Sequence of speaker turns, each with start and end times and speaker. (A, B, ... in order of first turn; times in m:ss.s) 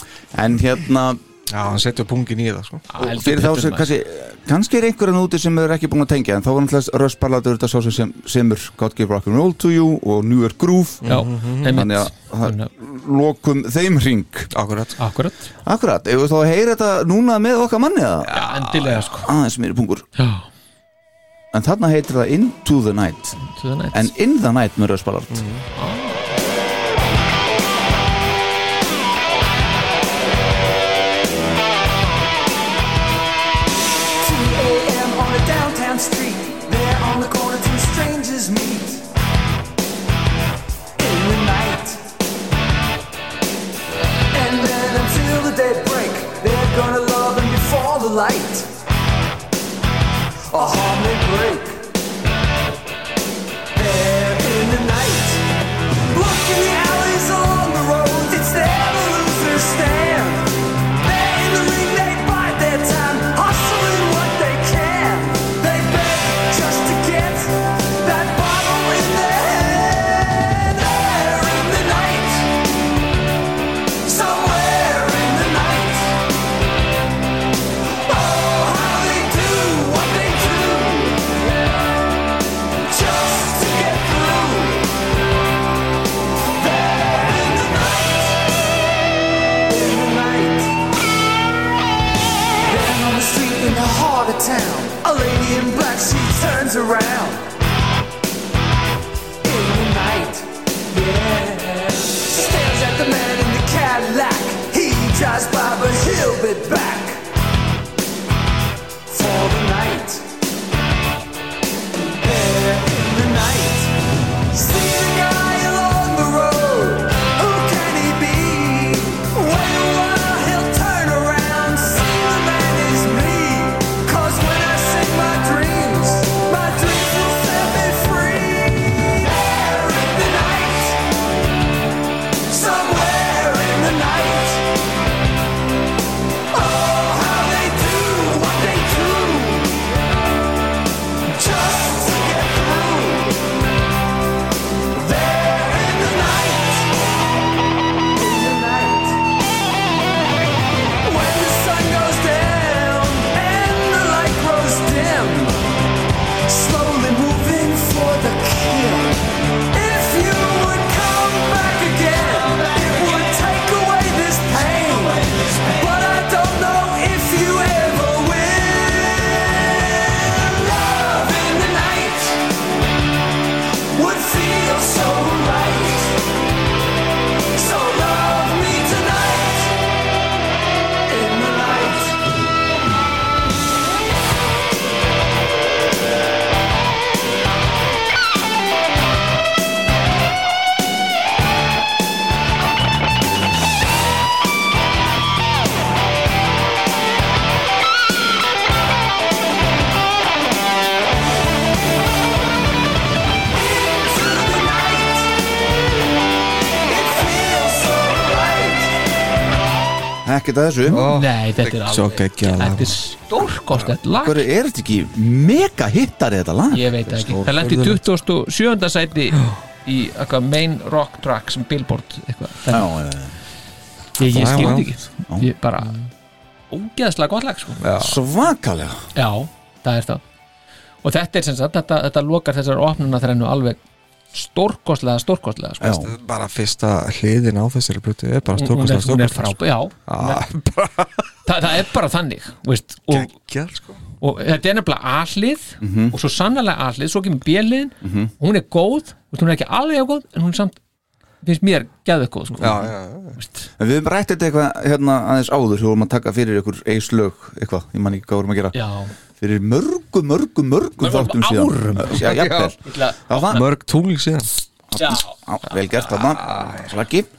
0:00.3-0:01.2 A
0:01.5-0:02.8 B
0:02.9-0:03.9 C
0:03.0-0:11.1 A
0:11.0-0:11.8 B
0:11.1-0:12.7 C
0:11.6-0:14.5 A
0:14.5-0:15.0 B
0:15.0-0:15.5 C
0:15.6-0:20.1 A
0:18.3-0:19.3 C
0:20.2-0:20.5 C
0:21.5-0:23.4 A
0:23.4-0:24.1 C
0:23.9-0:25.4 A
0:25.3-0:25.6 B
0:25.8-0:26.2 C
0:34.2-0:39.0 D
0:41.0-0:42.0 D
0:44.3-0:48.7 D
0:50.5-0:51.9 D
0:53.7-0:55.4 D
0:56.1-1:12.5 D
1:14.0-1:16.2 D
1:18.1-1:21.3 D
1:22.8-1:24.9 D
1:26.6-1:28.4 D
1:29.7-1:30.7 D
1:32.6-1:37.4 D
1:39.4-1:47.2 D
1:49.1-1:50.3 D
1:52.1-1:53.9 D
1:54.5-2:11.0 D
2:12.5-2:14.6 D
2:16.5-2:19.7 D
2:21.3-2:23.4 D
2:25.0-2:26.9 D
2:28.2-2:29.2 D
2:31.0-2:35.7 D
2:36.5-2:39.2 D
2:39.7-2:52.4 D
2:53.9-2:56.2 D
2:57.6-2:59.7 D
3:01.1-3:02.2 D
3:23.5-3:25.3 D
3:26.9-3:28.9 D
3:30.2-3:31.1 A
3:30.9-3:33.0 B
3:31.1-3:34.4 C
3:34.2-3:37.4 A
3:36.7-3:42.9 C
3:37.5-3:38.0 B
3:42.7-3:43.4 A
3:44.2-3:46.0 C
3:44.3-3:44.9 B
3:44.6-3:45.5 A
3:46.7-3:47.8 C
3:47.8-3:48.1 B
3:48.0-3:49.0 A
3:49.2-3:50.2 C
3:51.0-3:53.8 C
3:54.3-3:55.9 C
3:55.8-3:56.1 A
3:55.9-4:01.2 B
3:58.6-4:00.4 C
4:01.5-4:03.3 C
4:03.1-4:04.0 B
4:04.2-4:10.8 C
4:05.8-4:06.2 A
4:08.0-4:08.3 A
4:11.4-4:13.7 C
4:12.6-4:13.4 B
4:13.8-4:18.8 A
4:18.7-4:19.1 C
4:19.4-4:23.6 A
4:21.0-4:23.6 C
4:22.2-4:22.7 B
4:23.5-4:24.5 B
4:24.9-4:27.3 A
4:25.0-4:25.8 C
4:26.5-4:26.8 B